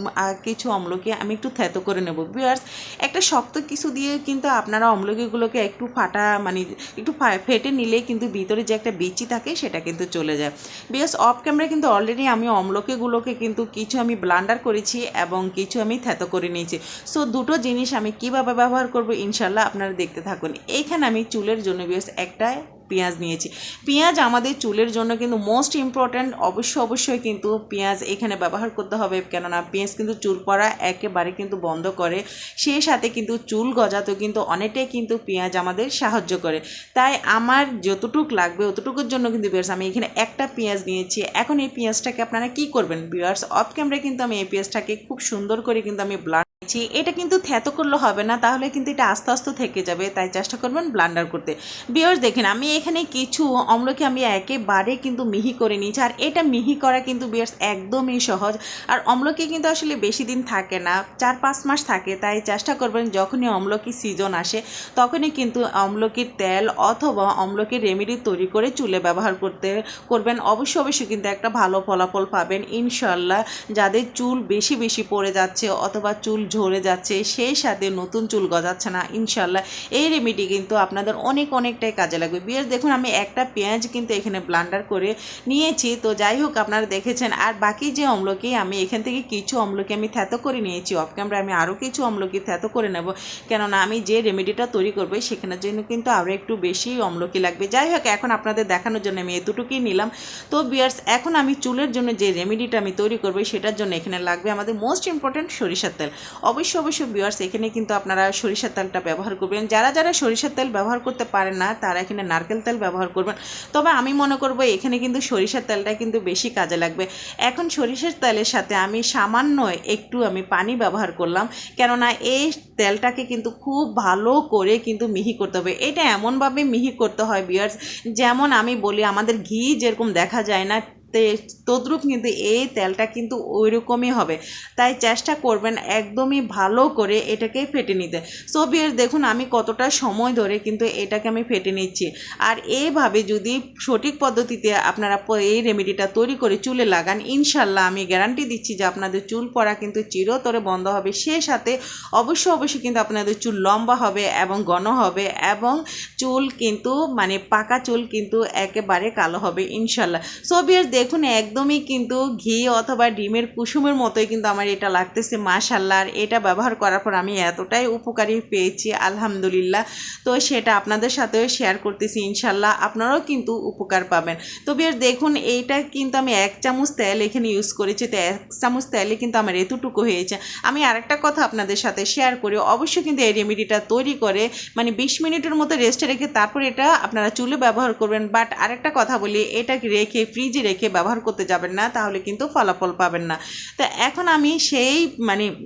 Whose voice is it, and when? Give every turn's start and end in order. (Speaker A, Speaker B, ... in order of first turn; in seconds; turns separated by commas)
Speaker A: 0.3-195.5